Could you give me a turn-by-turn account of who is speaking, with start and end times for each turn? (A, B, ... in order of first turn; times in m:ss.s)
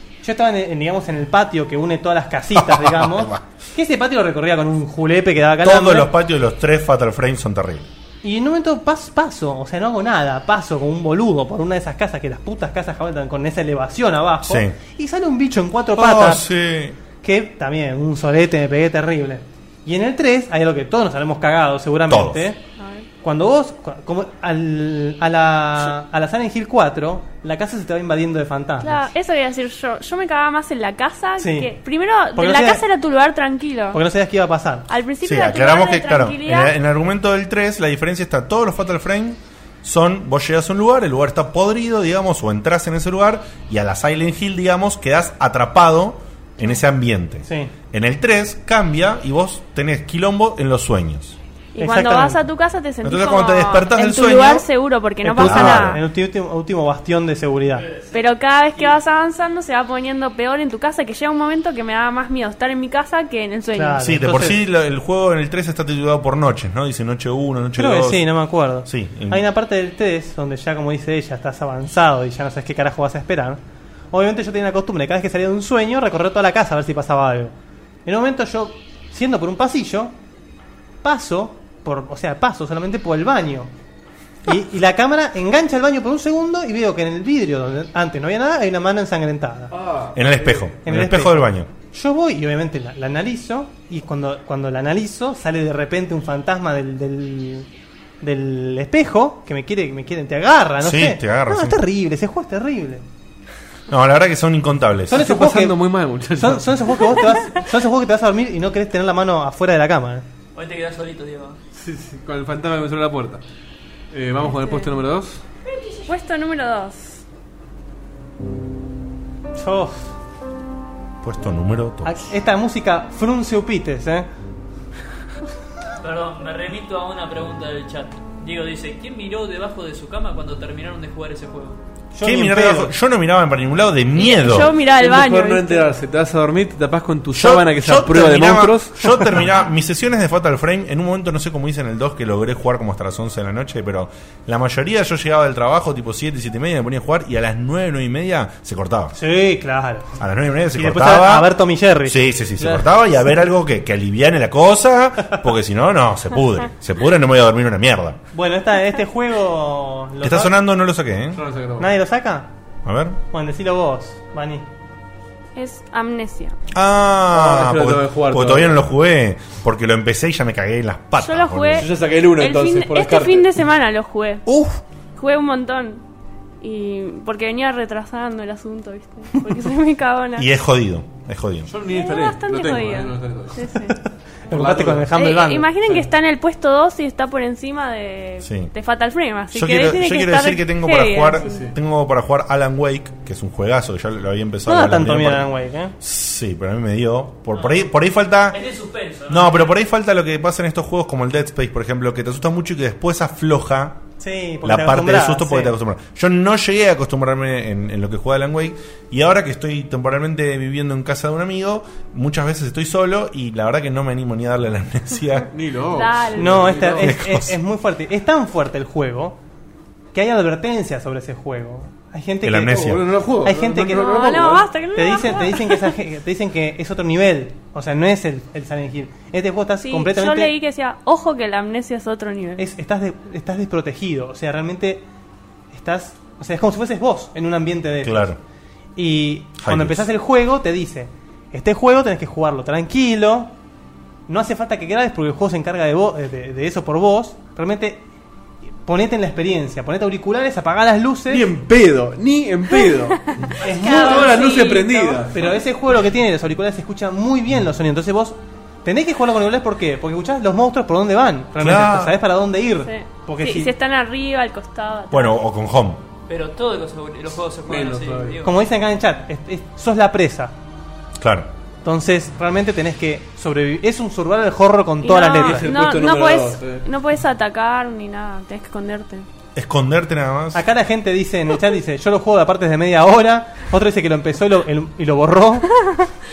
0:00.2-0:06.1 A
0:02.6-0:03.4 B
0:05.6-0:07.9 B
0:08.2-0:16.5 A
0:14.4-0:14.8 B
0:16.0-0:17.0 B
0:17.2-0:22.6 A
0:22.1-0:22.5 B
0:22.8-0:23.1 C
0:23.2-0:29.1 A
0:28.8-0:34.0 C
0:31.4-0:31.7 A
0:32.3-0:32.8 A
0:33.9-0:34.9 A
0:34.9-0:36.8 C
0:35.2-0:51.4 B
0:47.5-0:47.7 A
0:51.8-0:56.0 C
0:51.8-0:52.4 A
0:53.0-0:54.7 B
0:55.2-0:57.9 A
0:55.4-0:56.0 B
0:58.1-1:04.0 C
1:03.7-1:04.6 A
1:04.0-1:08.3 B
1:07.8-1:13.6 A
1:08.8-1:09.4 B
1:14.1-1:17.5 A
1:18.1-1:20.1 A
1:21.0-1:23.7 A
1:24.5-1:29.7 A
1:29.7-1:30.7 D
1:30.1-1:31.7 B
1:30.8-1:37.7 A
1:38.2-1:43.0 A
1:40.8-1:41.8 B
1:43.9-1:45.3 B
1:45.1-1:45.8 A
1:45.1-1:47.0 D
1:46.4-1:50.2 A
1:50.6-1:51.6 E
1:51.8-1:53.4 D
1:54.1-1:55.4 D
1:54.5-1:54.9 C
1:56.0-1:57.2 C
1:59.6-2:00.1 A
2:01.2-2:02.2 B
2:02.0-2:04.3 A
2:06.0-2:11.8 E
2:12.1-2:12.9 A
2:12.2-2:14.8 B
2:14.2-2:15.9 C
2:14.9-2:19.2 D
2:17.3-2:29.2 B
2:29.2-2:30.2 A
2:30.2-2:31.5 B
2:30.7-2:33.0 A
2:32.0-2:38.2 B
2:38.3-2:40.5 A
2:40.2-2:41.4 B
2:41.3-2:41.9 D
2:41.8-2:42.5 A
2:42.8-2:43.2 B
2:43.3-2:44.6 A
2:45.6-2:46.6 C
2:46.7-2:51.9 B
2:47.3-2:48.8 D
2:51.2-2:54.4 C
2:51.8-2:53.5 D
2:54.5-2:54.8 B
2:55.2-2:56.0 C
2:56.6-3:00.5 C
3:00.4-3:01.7 B
3:01.7-3:03.7 D
3:01.8-3:03.9 C
3:04.5-3:05.7 A
3:04.5-3:05.1 D
3:05.1-3:11.7 C
3:08.4-3:08.7 B
3:09.5-3:18.6 B
3:11.4-3:11.8 D
3:14.7-3:15.9 A
3:17.5-3:17.8 E
3:18.5-3:19.7 E
3:19.3-3:24.0 B
3:24.2-3:25.7 A
3:24.6-3:35.5 B
3:35.5-3:37.1 D
3:35.9-3:36.9 C
3:36.4-3:39.4 A
3:37.0-3:37.6 B
3:40.1-3:44.3 A
3:42.4-3:43.0 B
3:42.8-3:44.7 D
3:44.0-3:45.9 C
3:45.0-3:50.5 A
3:49.8-3:52.6 C
3:52.6-3:55.0 A
3:55.7-3:58.3 A
3:58.0-3:58.4 B
3:59.0-4:03.5 A
3:59.6-4:00.0 B
4:04.3-4:08.0 A
4:08.8-4:11.5 A
4:11.3-4:15.3 D
4:13.3-4:15.3 C
4:13.6-4:14.4 A
4:15.3-4:23.7 A
4:21.6-4:22.2 B
4:22.8-4:25.4 C
4:25.1-4:26.0 B
4:26.3-4:28.5 E
4:27.7-4:28.4 D
4:28.4-4:30.5 A
4:31.2-4:31.5 B
4:31.8-4:35.7 A
4:35.0-4:39.3 C
4:35.3-4:36.8 D
4:39.6-4:40.6 B
4:40.5-4:45.7 A